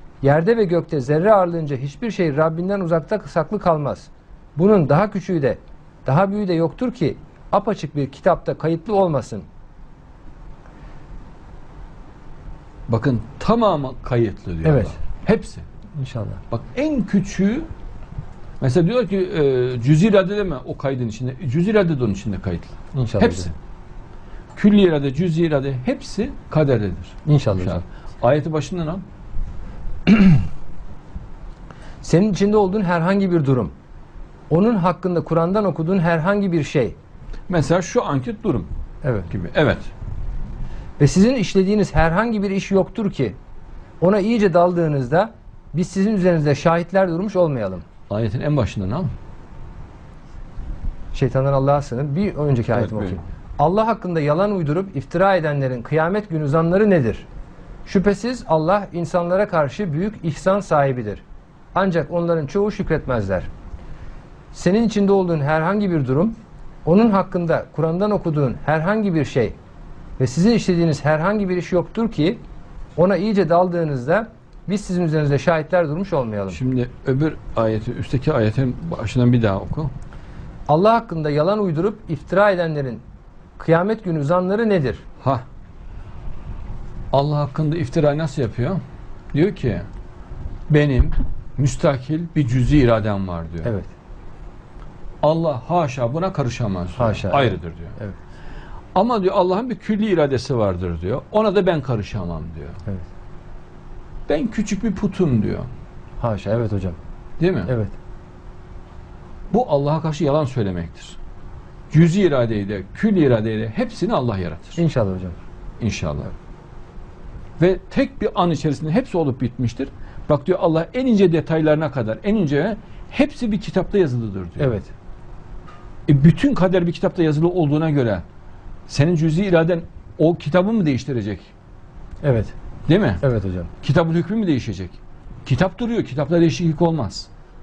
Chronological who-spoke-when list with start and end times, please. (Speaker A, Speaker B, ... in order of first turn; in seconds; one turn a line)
Speaker A: 0.2-9.4
Speaker B: 12.9-15.6
Speaker A: 14.6-15.0
Speaker A: 15.9-16.4
Speaker B: 16.5-17.7
Speaker B: 18.6-23.5
Speaker A: 22.9-23.5
Speaker B: 24.5-29.0
Speaker A: 27.2-27.8
Speaker A: 30.1-30.4
Speaker A: 32.0-33.7
Speaker A: 34.5-37.0
Speaker B: 37.5-38.7
Speaker A: 39.0-39.3
Speaker B: 39.3-39.9
Speaker A: 41.0-43.4
Speaker A: 44.0-47.8
Speaker B: 48.1-49.1
Speaker A: 51.1-57.3
Speaker B: 52.7-53.2
Speaker A: 57.8-61.2
Speaker A: 61.7-63.5
Speaker A: 64.5-69.5
Speaker A: 70.2-72.4
Speaker A: 73.0-76.6
Speaker B: 76.5-79.9
Speaker A: 80.7-83.0
Speaker A: 83.6-85.0
Speaker B: 87.1-88.8
Speaker B: 89.3-89.9
Speaker B: 90.7-93.7
Speaker A: 93.6-93.9
Speaker B: 95.2-98.0
Speaker A: 97.0-98.2
Speaker B: 98.9-102.8
Speaker B: 104.3-105.7
Speaker A: 106.2-107.0
Speaker B: 107.4-107.7
Speaker A: 107.7-108.0
Speaker B: 109.5-111.2
Speaker B: 111.9-114.8
Speaker A: 114.8-115.4
Speaker B: 115.8-116.3
Speaker B: 117.6-124.7
Speaker A: 124.6-124.9
Speaker B: 126.1-128.2
Speaker B: 128.9-131.5
Speaker A: 132.2-132.5
Speaker B: 132.9-133.2
Speaker A: 133.2-133.7
Speaker B: 133.8-137.3